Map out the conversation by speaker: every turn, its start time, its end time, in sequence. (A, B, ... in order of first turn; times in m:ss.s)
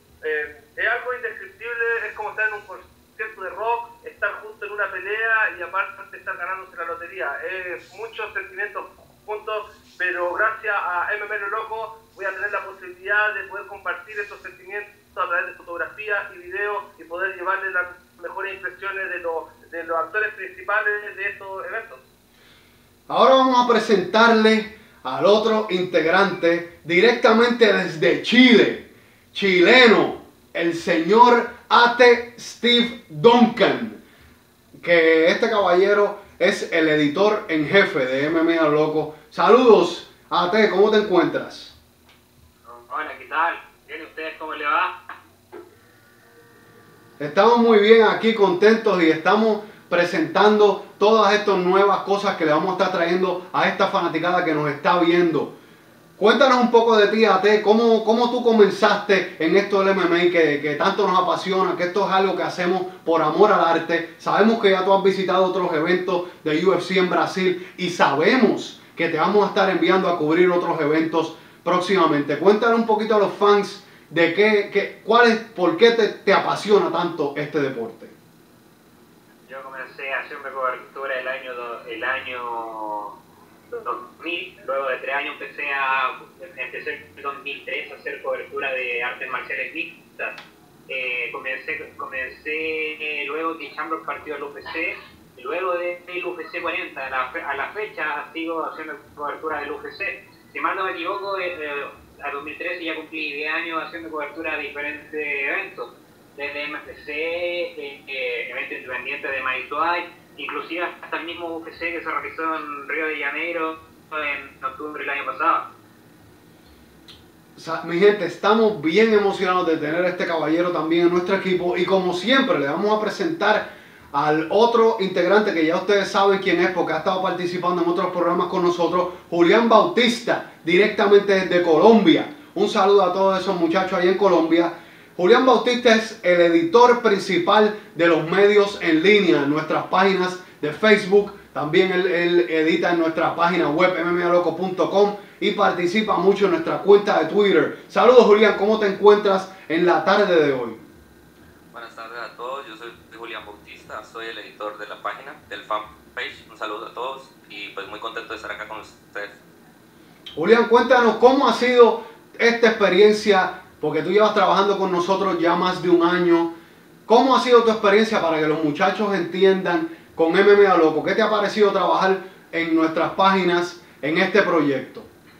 0:00.2-0:22.0 A
0:23.1-0:34.0 B
0:34.8-0:41.8 B
0:42.7-0:44.9 C
0:47.2-0:55.5 B
0:56.2-1:18.1 B
1:19.5-1:23.1 C
1:23.7-1:30.4 C
1:30.9-1:55.7 C
1:57.6-2:30.8 B
2:31.7-2:39.4 D
2:40.4-2:46.5 B
2:47.0-2:55.1 B